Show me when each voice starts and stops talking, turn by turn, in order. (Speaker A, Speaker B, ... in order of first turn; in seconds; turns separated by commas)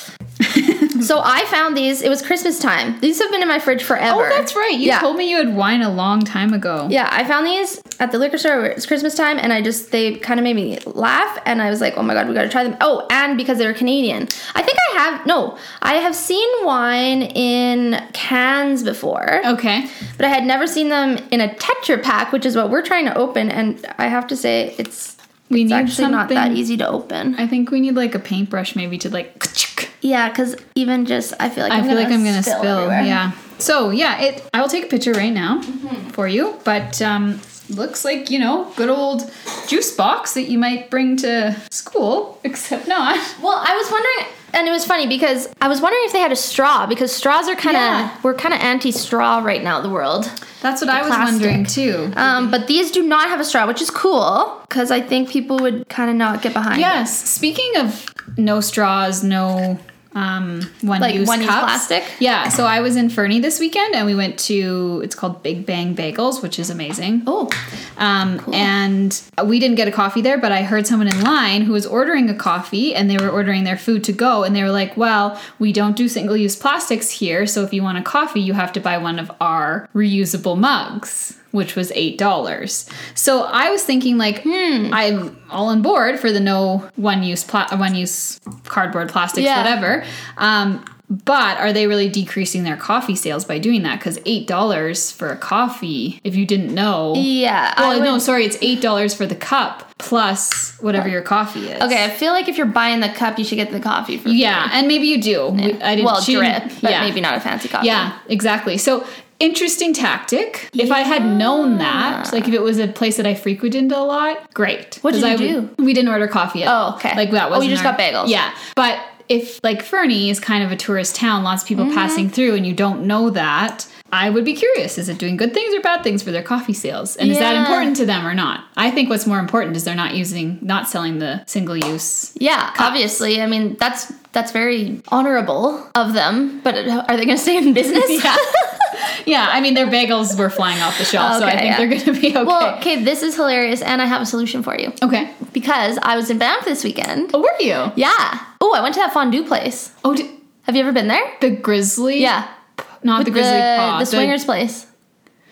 Speaker A: 0.4-1.0, Speaker B: 1.0-5.1, Speaker A: 4.1-7.0, Speaker B: 6.9-19.5, Speaker A: 19.4-19.9, Speaker B: 20.2-27.4, Speaker A: 25.5-26.6, Speaker A: 27.4-29.9, Speaker B: 30.0-33.2, Speaker A: 31.7-43.3, Speaker B: 43.4-50.4, Speaker A: 47.6-48.1, Speaker A: 50.6-52.5, Speaker B: 50.9-57.1, Speaker A: 56.7-67.3, Speaker B: 61.0-62.2, Speaker B: 67.3-67.5, Speaker A: 68.0-102.1, Speaker B: 84.5-85.0, Speaker B: 89.3-89.8, Speaker B: 97.1-98.3, Speaker B: 101.8-104.7, Speaker A: 104.2-107.2, Speaker B: 105.5-108.1, Speaker A: 107.8-133.1, Speaker B: 110.8-112.4, Speaker B: 115.0-115.7, Speaker B: 116.7-118.3, Speaker B: 121.8-122.3, Speaker B: 127.2-128.0, Speaker B: 132.4-139.0, Speaker A: 137.9-142.8, Speaker B: 141.0-147.4, Speaker A: 145.0-145.4, Speaker A: 147.3-148.0, Speaker B: 147.9-149.9, Speaker A: 150.0-150.3, Speaker B: 150.7-151.4, Speaker A: 151.4-152.3, Speaker B: 152.2-152.5, Speaker A: 153.0-154.4, Speaker B: 153.2-154.9